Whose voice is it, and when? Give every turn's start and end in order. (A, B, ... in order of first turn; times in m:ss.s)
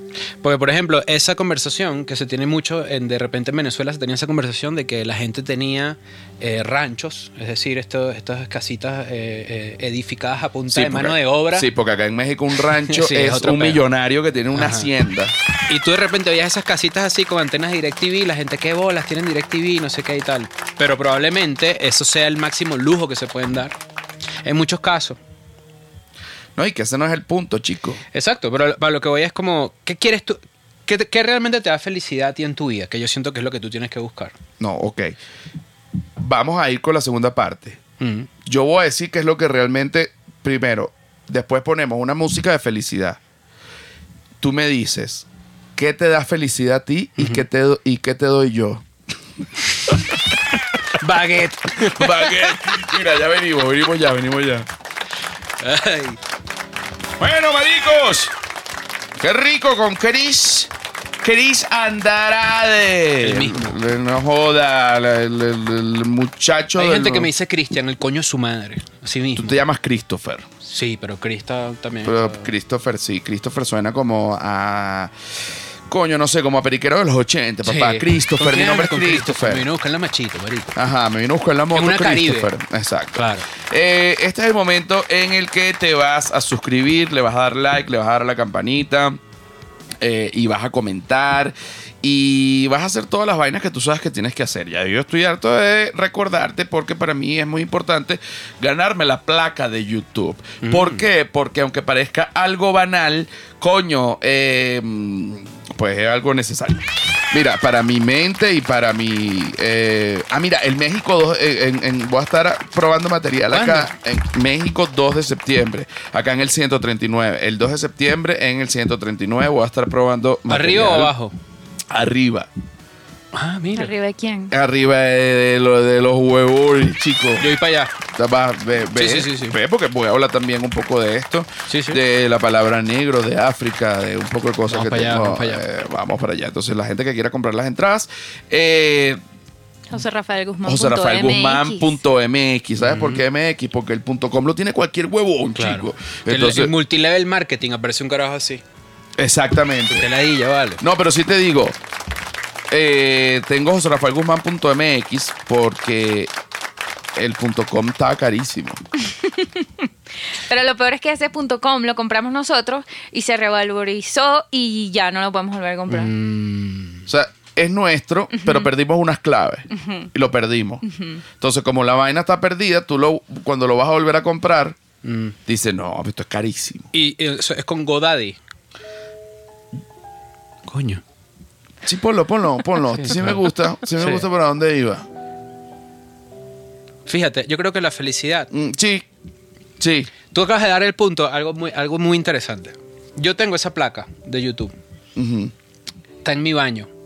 0:00.4-0:11.7 A
0:10.7-0:15.3 B
0:12.8-0:13.8 A
0:14.5-0:14.9 A
0:15.7-0:23.8 A
0:24.4-0:25.2 A
0:26.6-0:28.0 B
0:28.1-0:34.3 A
0:34.6-0:35.2 B
0:36.2-0:37.8 B
0:38.0-0:38.3 A
0:38.4-0:43.2 B
0:44.4-0:48.8 B
0:47.2-0:47.4 A
0:49.9-0:50.2 B
0:50.9-0:52.6 A
0:51.8-0:54.7 B
0:55.6-0:56.2 A
0:57.2-0:58.3 B
0:59.2-1:07.3 B
1:03.2-1:03.8 A
1:06.8-1:09.6 A
1:09.4-1:10.5 B
1:10.6-1:12.5 A
1:12.0-1:15.1 B
1:15.9-1:19.6 B
1:17.6-1:20.7 A
1:20.8-1:29.2 B
1:21.7-1:22.5 A
1:23.1-1:23.4 A
1:30.0-2:01.1 B
1:40.6-1:41.0 A
1:53.5-1:53.9 A
2:00.5-2:01.3 A
2:01.9-2:02.5 B
2:03.3-2:03.9 A
2:03.8-2:04.5 C
2:04.5-2:07.5 B
2:07.4-2:07.9 A
2:08.1-2:19.2 B
2:08.9-2:09.6 A
2:11.7-2:12.0 A
2:14.7-2:15.6 A
2:19.9-2:22.0 C
2:20.6-2:26.7 B
2:22.8-2:23.2 A
2:25.5-2:28.6 A
2:29.2-2:30.1 B
2:29.9-2:30.8 A
2:30.8-2:31.8 B
2:32.7-2:36.3 B
2:37.2-2:38.8 B
2:39.1-2:39.6 C
2:40.5-2:46.1 C
2:45.9-2:47.0 A
2:47.1-2:50.8 B
2:48.4-2:48.7 C
2:49.8-2:50.1 C
2:50.9-2:51.2 C
2:51.4-2:54.8 B
2:55.0-2:55.4 A
2:55.5-2:56.9 B
2:56.9-2:58.4 A
3:00.7-3:01.0 A
3:01.8-3:05.0 B
3:02.9-3:04.2 A
3:07.0-3:08.5 A
3:08.5-3:09.0 B
3:09.8-3:10.1 B
3:10.3-3:14.7 A
3:15.2-3:15.5 B
3:16.2-3:16.9 A